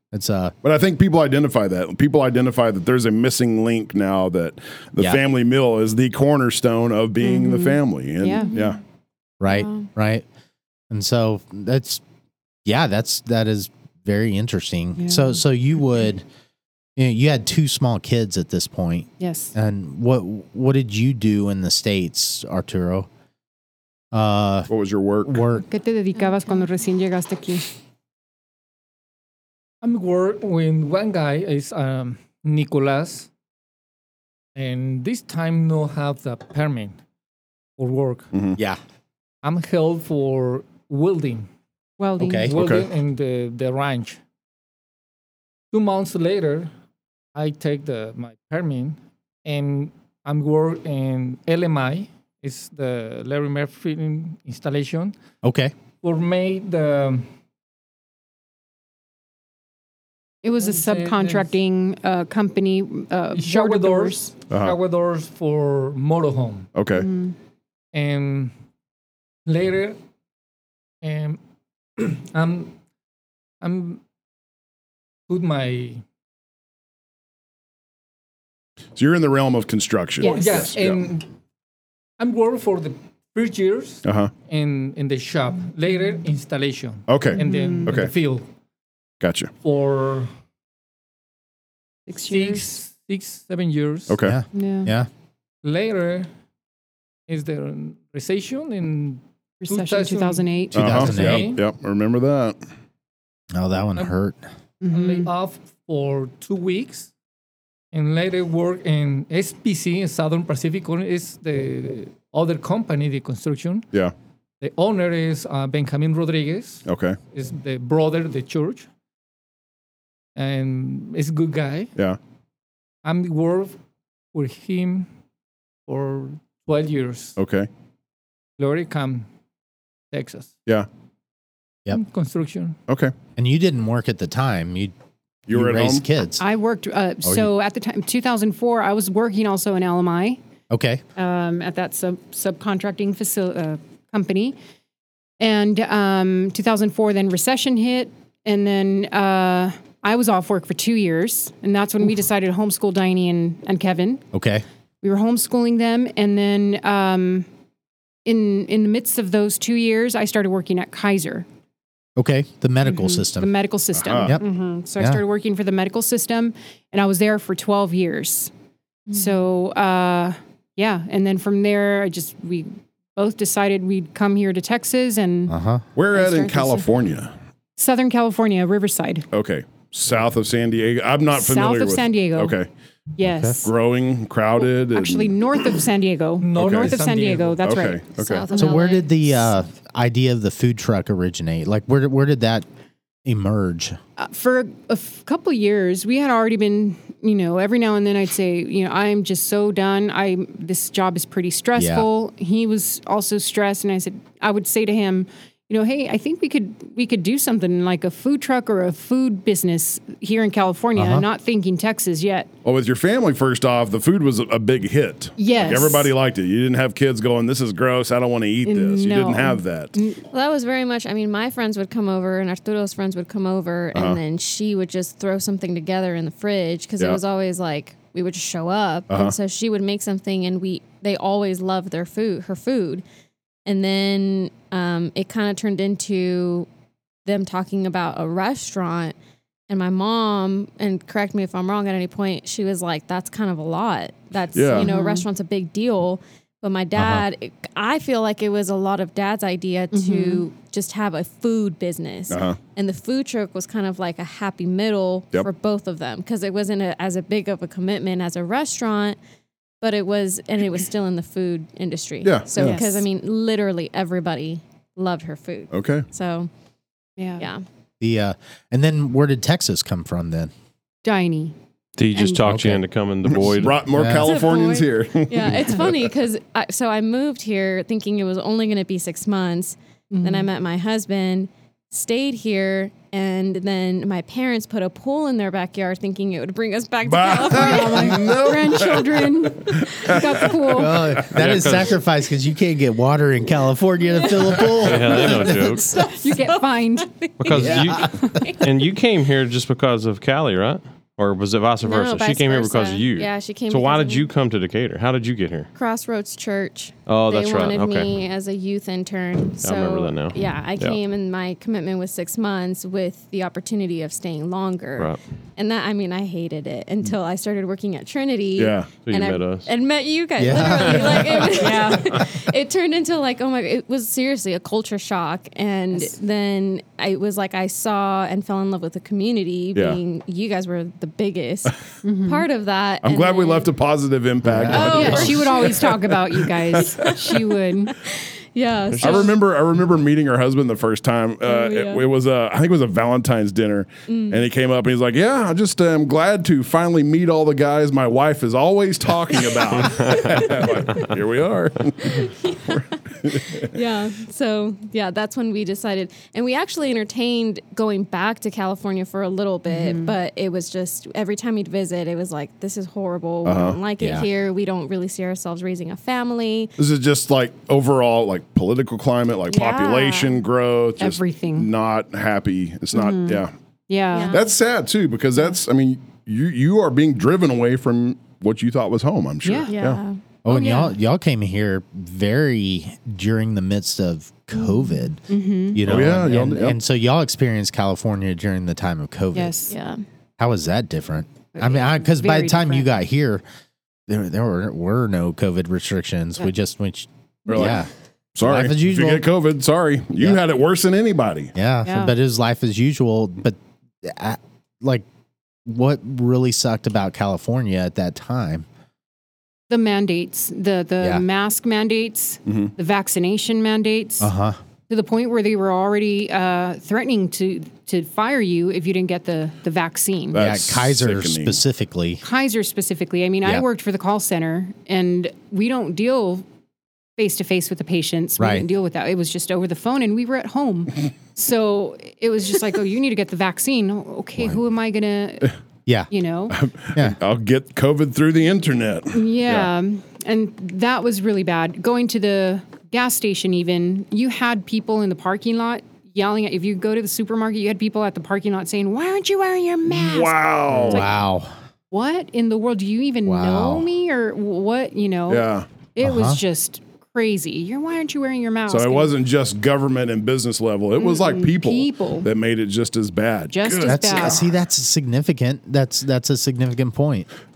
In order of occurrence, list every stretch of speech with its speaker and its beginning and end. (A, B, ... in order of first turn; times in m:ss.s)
0:00.1-0:00.5 A
0:00.6-0:08.8 B
0:07.2-0:08.5 C
0:09.4-0:10.2 A
0:09.5-0:09.9 D
0:10.9-0:12.0 A
0:12.6-0:16.2 A
0:15.0-0:15.4 C
0:17.0-0:23.1 A
0:19.2-0:19.5 C
0:24.1-0:24.7 A
0:24.7-0:25.4 B
0:25.3-0:25.6 A
0:25.7-0:27.6 C
0:26.2-0:26.5 D
0:29.8-0:33.3 E
0:34.5-0:36.9 E
0:37.8-0:38.3 E
0:38.3-0:38.6 B
0:39.4-0:41.5 E
0:42.0-0:42.5 C
0:42.2-0:42.5 A
0:42.4-0:44.2 E
0:42.5-0:42.8 B
0:45.7-0:46.7 E
0:47.3-0:55.1 E
0:55.4-0:55.7 A
0:56.0-0:57.2 E
1:00.4-1:04.3 C
1:00.6-1:01.5 E
1:03.3-1:06.7 E
1:04.5-1:04.8 B
1:06.7-1:07.1 B
1:06.9-1:07.3 C
1:07.9-1:08.5 E
1:09.4-1:10.0 E
1:11.0-1:11.4 E
1:12.0-1:12.7 E
1:13.6-1:14.0 E
1:15.3-1:16.0 E
1:19.0-1:21.0 B
1:20.2-1:20.6 C
1:20.2-1:21.3 E
1:22.2-1:28.4 E
1:24.0-1:24.3 B
1:27.1-1:28.1 B
1:27.3-1:27.9 C
1:29.2-1:29.5 B
1:29.6-1:30.3 E
1:32.1-1:32.6 C
1:32.3-1:34.1 E
1:34.1-1:34.4 B
1:34.2-1:35.1 A
1:34.5-1:34.9 C
1:35.6-1:36.3 E
1:37.3-1:41.6 E
1:39.6-1:41.0 C
1:40.7-1:41.5 A
1:40.7-1:42.6 B
1:43.5-1:44.4 A
1:44.8-1:45.3 C
1:44.9-1:47.1 E
1:47.9-1:53.8 E
1:54.6-1:58.9 E
1:56.9-1:57.2 B
2:00.4-2:01.9 E
2:03.0-2:03.8 E
2:04.3-2:05.1 E
2:05.9-2:07.3 E
2:07.4-2:07.7 B
2:08.6-2:09.3 E
2:10.1-2:10.5 E
2:11.9-2:12.8 E
2:12.9-2:13.1 B
2:13.4-2:14.9 A
2:15.5-2:16.0 B
2:15.5-2:16.4 A
2:16.4-2:20.4 C
2:17.2-2:17.5 A
2:20.7-2:21.0 A
2:21.2-2:24.6 C
2:25.4-2:34.2 C
2:34.3-2:34.6 A
2:35.0-2:37.5 C
2:38.2-2:41.4 C
2:42.2-2:43.5 A
2:42.8-2:48.5 C
2:43.9-2:44.4 B
2:44.1-2:44.4 A
2:49.1-2:49.4 D
2:49.1-2:55.5 C
2:55.5-2:55.8 A
2:55.9-2:57.3 B
2:56.1-2:56.8 D
2:57.8-2:59.3 C
2:59.3-3:02.7 B
3:01.3-3:02.6 C
3:03.2-3:03.7 C
3:03.2-3:03.5 A
3:03.6-3:05.3 B
3:04.6-3:08.9 C
3:06.4-3:07.8 E
3:06.6-3:06.9 B
3:07.6-3:08.4 B
3:08.2-3:09.6 D
3:08.5-3:12.6 A
3:13.2-3:14.0 A
3:14.2-3:32.5 C
3:21.8-3:22.1 A
3:31.0-3:31.2 A
3:32.6-3:40.0 B
3:35.4-3:36.1 C
3:38.6-3:40.2 C
3:40.3-3:53.0 D
3:43.9-3:44.2 B
3:49.1-3:49.3 B
3:53.6-3:56.7 D
3:57.2-3:59.1 D
3:59.7-4:19.2 D
4:04.5-4:04.9 B
4:04.7-4:05.2 C
4:06.9-4:07.2 A
4:09.9-4:10.4 C
4:12.3-4:12.6 B
4:19.8-4:26.5 D
4:22.2-4:22.8 B
4:22.6-4:23.0 C
4:25.7-4:26.1 B
4:27.2-4:27.4 C
4:27.4-4:27.6 D
4:28.0-4:30.5 A
4:31.0-4:31.5 C
4:32.0-4:33.8 F
4:32.4-4:32.8 A
4:33.3-4:36.1 B
4:33.9-4:34.3 A
4:34.1-4:48.3 D
4:40.1-4:40.5 C
4:47.0-4:50.6 B
4:47.5-4:51.1 C
4:50.6-4:55.9 A
4:51.3-4:52.0 F
4:54.1-4:58.7 D
4:54.7-4:55.9 F
4:56.0-4:57.1 C
4:57.4-5:05.7 F
4:57.5-4:58.4 A
5:01.8-5:04.3 D
5:05.7-5:33.7 D
5:07.1-5:08.1 F
5:09.6-5:11.0 F
5:18.6-5:18.9 B
5:19.0-5:19.7 F
5:20.4-5:21.2 A
5:20.6-5:21.5 F
5:21.5-5:22.1 C
5:29.7-5:30.0 B
5:32.0-5:32.4 C
5:33.0-5:35.9 B
5:34.4-5:34.9 A
5:34.7-5:35.9 D
5:34.7-5:37.9 C
5:36.8-5:39.4 D
5:38.9-5:39.3 F
5:39.0-5:53.7 B
5:41.4-5:42.0 D
5:44.1-5:44.4 D
5:49.5-5:50.8 D
5:49.8-5:50.2 F
5:52.0-6:06.7 D
5:59.7-6:00.1 C
6:03.4-6:03.8 B
6:04.0-6:04.2 A
6:06.8-6:13.5 B
6:09.5-6:10.4 D
6:11.0-6:11.7 C
6:12.9-6:14.4 C
6:14.1-6:14.4 D
6:14.3-6:20.0 B
6:19.4-6:19.7 C
6:19.6-6:20.2 D
6:20.4-6:29.5 A
6:20.5-6:20.9 C
6:25.3-6:25.8 C
6:25.8-6:26.8 B
6:29.3-6:29.7 C
6:29.7-6:30.0 D
6:30.4-6:33.4 A
6:31.5-6:32.9 C
6:34.1-6:37.9 A
6:37.5-6:41.5 B
6:38.4-6:39.3 A
6:41.5-6:45.0 A
6:41.8-6:42.1 C
6:45.6-6:48.6 A
6:49.7-6:54.3 C
6:54.2-6:54.6 A
6:54.9-7:00.4 C
7:00.3-7:01.6 B
7:00.3-7:02.2 A
7:02.2-7:06.4 C
7:07.2-7:15.5 C
7:08.4-7:08.7 A
7:16.1-7:16.6 C
7:16.5-7:19.7 B
7:19.1-7:31.1 C
7:29.9-7:31.0 B
7:30.7-7:31.5 A
7:31.9-7:39.1 C
7:33.2-7:33.9 A
7:35.3-7:35.7 B
7:36.0-7:36.4 A
7:38.7-7:44.5 B
7:41.0-7:42.3 C
7:43.5-7:44.4 C
7:43.8-7:47.3 A